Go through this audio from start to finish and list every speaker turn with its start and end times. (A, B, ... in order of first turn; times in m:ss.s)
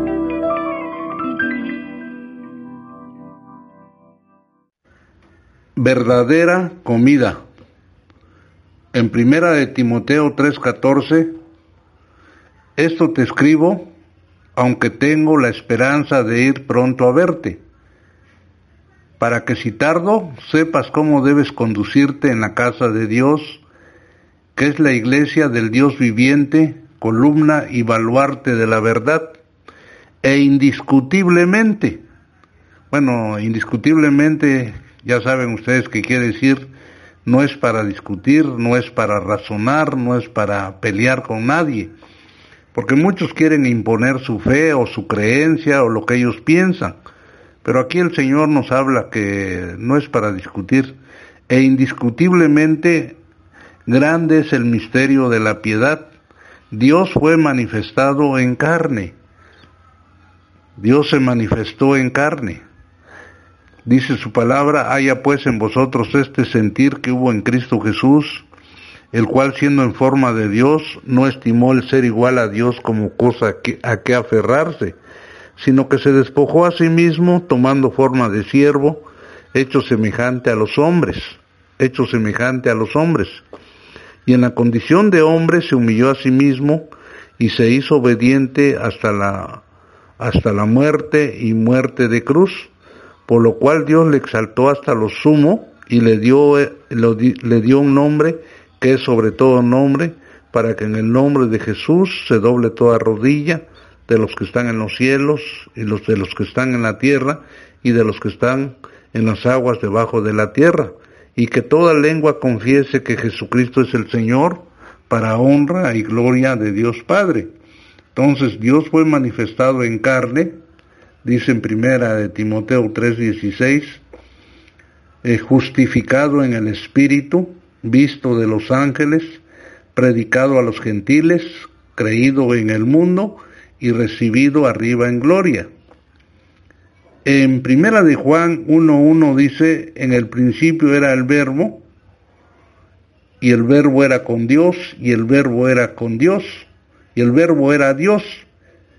0:05.8-0:07.4 A
0:08.9-0:11.3 A
0:12.8-0:13.9 A
0:14.6-0:17.6 A
0:19.2-0:23.6 A
0:24.5-0:29.4 A
0:30.2-0:32.0 A
0:32.9-0:36.7 A
0:37.2-0:41.9 A
0:42.7-0:47.0 A
0:47.6-0:51.0 A
0:51.5-0:53.2 A
0:53.8-0:56.1 A
0:56.7-0:59.2 A
1:00.8-1:02.6 A
1:03.8-1:08.4 A
1:09.1-1:15.0 A
1:15.6-1:23.4 A
1:24.2-1:29.6 A
1:30.2-1:32.7 A
1:33.3-1:57.5 A
1:58.1-2:00.6 A
2:01.2-2:04.0 A
2:05.2-2:09.4 A
2:09.9-2:15.7 A
2:17.2-2:21.8 A
2:23.4-2:28.5 A